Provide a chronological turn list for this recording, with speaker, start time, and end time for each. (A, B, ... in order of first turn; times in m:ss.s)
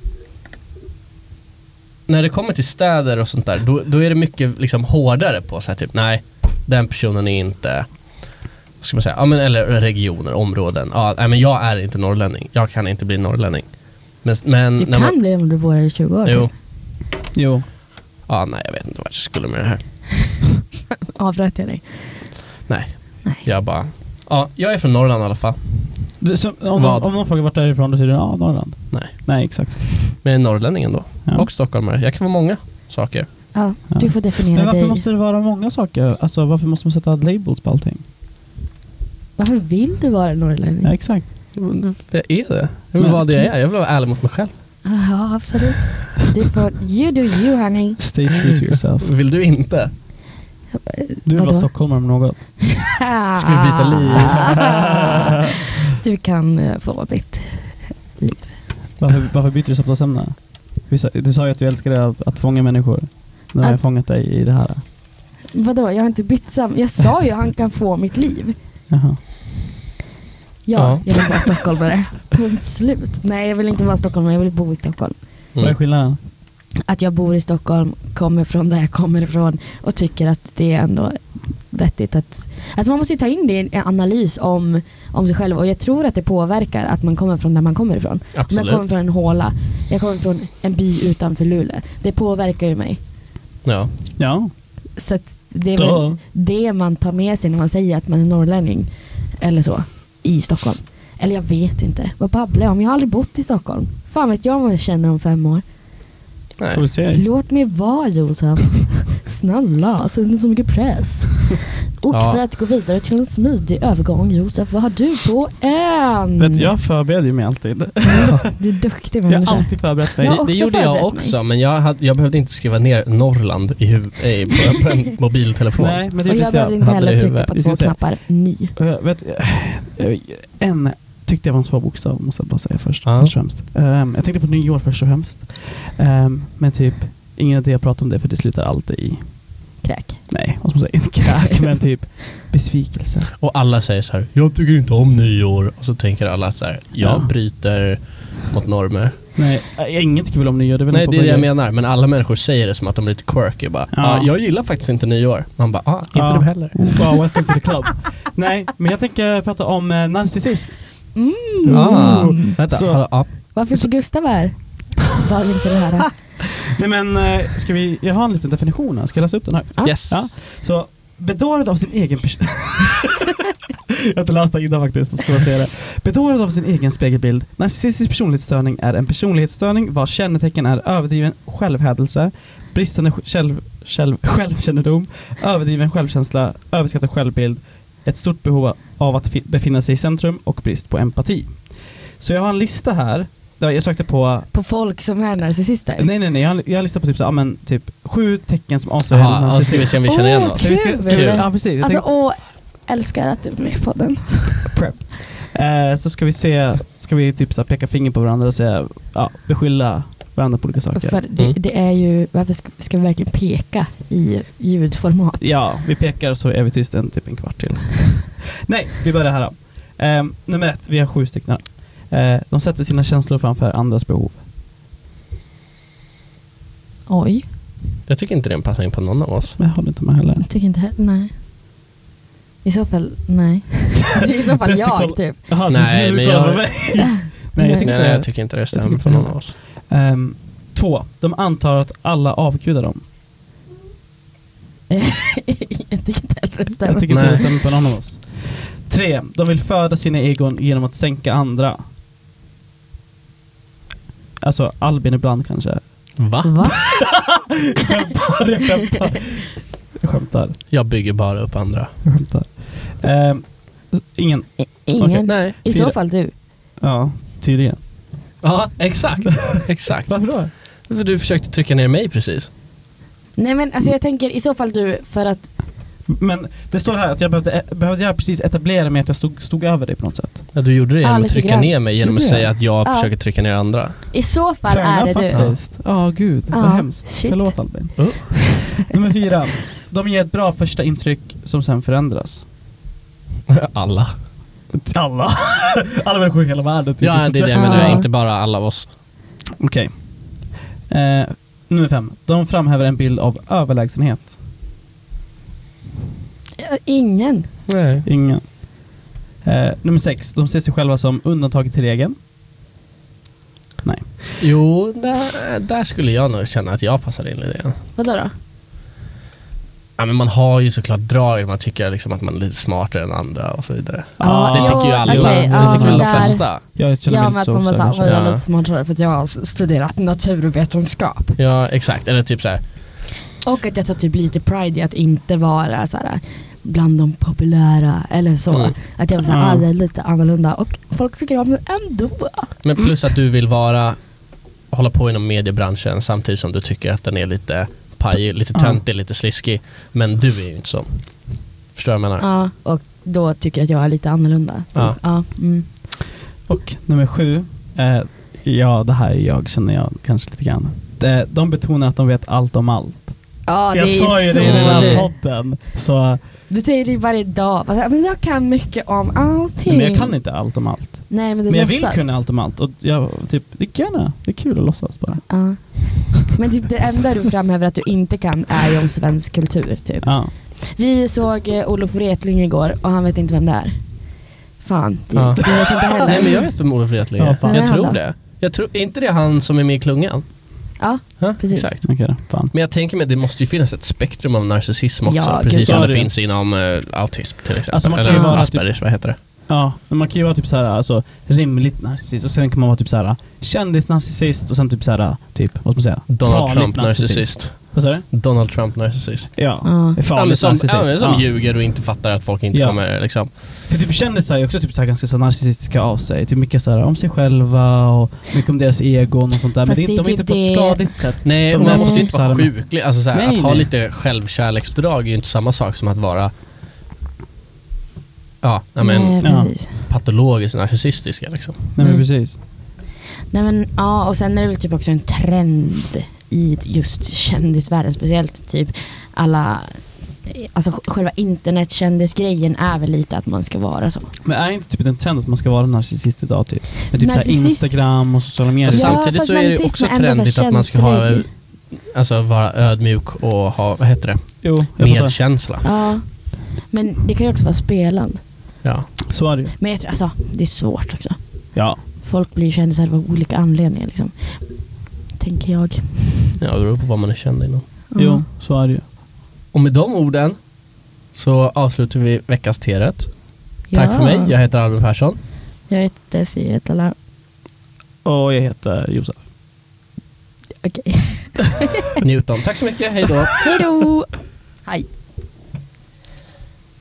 0:02.1-0:15.4 A
0:14.8-0:16.5 B
0:16.2-0:16.5 A
0:17.3-0:17.7 C
0:18.3-0:20.4 A
0:21.1-0:22.4 B
0:22.7-0:26.2 A
0:26.2-0:30.2 C
0:26.8-0:27.1 A
0:28.9-0:33.6 A
0:33.5-0:35.1 B
0:33.9-0:38.0 C
0:39.4-0:41.0 B
0:40.8-0:41.3 C
0:41.6-0:44.5 A
0:43.0-0:43.4 C
0:44.8-0:48.0 B
0:48.0-0:49.1 C
0:48.5-0:49.9 A
0:50.8-0:52.0 B
0:51.2-0:52.5 C
0:52.8-0:55.3 B
0:53.4-0:54.9 A
0:55.9-0:58.6 B
0:59.0-1:04.8 C
1:05.5-1:08.6 B
1:08.9-1:09.2 C
1:10.6-1:15.2 B
1:10.8-1:11.5 A
1:15.6-1:16.2 C
1:16.8-1:33.0 B
1:28.3-1:28.9 A
1:33.6-1:33.9 A
1:34.2-1:34.5 C
1:35.0-1:45.6 B
1:35.8-1:36.2 C
1:46.6-1:46.8 A
1:46.7-1:47.2 C
1:47.1-1:56.7 B
1:52.1-1:52.4 A
1:56.4-1:58.6 C
1:58.5-2:01.3 B
1:59.3-2:00.4 C
2:00.2-2:07.5 A
2:05.8-2:06.9 C
2:06.3-2:08.8 B
2:07.5-2:19.5 C
2:13.0-2:13.4 A
2:19.8-2:20.5 B
2:20.3-2:23.3 C
2:23.4-2:29.2 A
2:27.0-2:27.3 C
2:29.4-2:31.5 C
2:30.9-2:37.2 A
2:33.9-2:34.3 C
2:36.1-2:43.2 C
2:41.2-2:42.6 B
2:41.7-2:43.6 A
2:43.4-2:46.1 B
2:46.6-2:53.2 C
2:49.8-2:50.3 A
2:53.9-3:14.5 C
3:14.5-3:16.1 B
3:16.0-3:22.1 C
3:19.1-3:21.5 A
3:20.0-3:24.7 B
3:24.7-3:31.2 C
3:30.9-3:35.5 B
3:35.4-3:44.4 C
3:47.1-3:47.5 B
3:48.1-3:49.6 A
3:49.6-3:50.5 C
3:50.4-3:51.4 B
3:52.6-3:55.5 B
3:54.6-4:03.0 C
3:55.7-3:59.6 A
3:57.4-3:57.9 B
4:04.9-4:07.5 B
4:06.8-4:11.8 C
4:07.1-4:07.5 A
4:14.4-4:16.2 C
4:16.2-4:16.8 A
4:16.4-4:17.0 B
4:17.0-4:20.6 C
4:20.7-4:21.9 A
4:22.0-4:26.0 C
4:24.6-4:26.3 B
4:25.3-4:25.6 A
4:26.8-4:27.8 C
4:28.4-4:32.5 A
4:30.0-4:30.5 C
4:33.4-4:35.5 B
4:36.1-4:40.5 C
4:40.5-4:44.0 A
4:41.0-4:43.1 B
4:44.1-4:45.6 B
4:44.7-4:52.5 C
4:46.5-4:48.9 B
4:48.0-4:48.8 A
4:53.5-4:54.2 A
4:54.7-4:58.0 C
4:57.0-4:58.9 A
4:57.5-4:58.1 B
4:59.6-5:04.4 C
5:06.6-5:07.5 B
5:07.7-5:08.1 A
5:08.0-5:12.2 C
5:13.8-5:14.2 C
5:14.4-5:17.8 A
5:18.0-5:18.3 B
5:20.0-5:26.6 A
5:24.2-5:28.1 C
5:24.2-5:31.4 B
5:28.0-5:28.4 A
5:31.4-5:32.8 A
5:33.4-5:42.8 B
5:38.5-5:38.8 A
5:39.3-5:39.7 C
5:42.6-5:52.3 A
5:48.5-5:48.8 C
5:52.2-5:55.7 B
5:54.7-5:55.0 A
5:56.5-6:06.2 C
6:03.4-6:05.1 B
6:04.4-6:05.1 A
6:06.5-6:10.3 B
6:09.7-6:16.0 C
6:11.1-6:12.2 B
6:15.3-6:26.5 B
6:20.0-6:20.3 C
6:25.1-6:39.2 A
6:25.4-6:26.5 C
6:27.2-6:27.8 C
6:27.5-6:28.0 B
6:30.8-6:31.7 B
6:31.8-6:32.5 C
6:35.1-6:35.8 B
6:35.6-6:36.1 C
6:37.7-6:48.1 C
6:38.0-6:38.4 B
6:46.1-6:53.4 A
6:49.4-6:51.3 C
6:49.6-6:50.0 B
6:52.5-7:03.7 C
6:59.6-7:02.1 B
7:01.2-7:06.3 A
7:08.4-7:11.6 A
7:08.8-7:09.8 B
7:09.2-7:09.5 C
7:11.7-7:12.4 C
7:11.8-7:12.1 B
7:13.3-7:24.1 B
7:24.2-7:29.0 C
7:27.0-7:31.3 B
7:28.6-7:35.8 A
7:34.4-7:35.2 C
7:35.6-7:38.3 B
7:38.6-7:39.0 A
7:39.1-7:39.6 C
7:39.6-7:46.3 B
7:41.5-7:41.8 C
7:46.4-7:47.7 A
7:47.9-7:48.3 B
7:48.0-7:48.8 C
7:49.5-7:50.5 A
7:51.1-7:55.2 A
7:53.7-7:54.3 B
7:55.7-7:57.0 B
7:58.0-7:59.2 C
8:00.6-8:01.9 B
8:02.0-8:03.5 A
8:03.4-8:04.9 B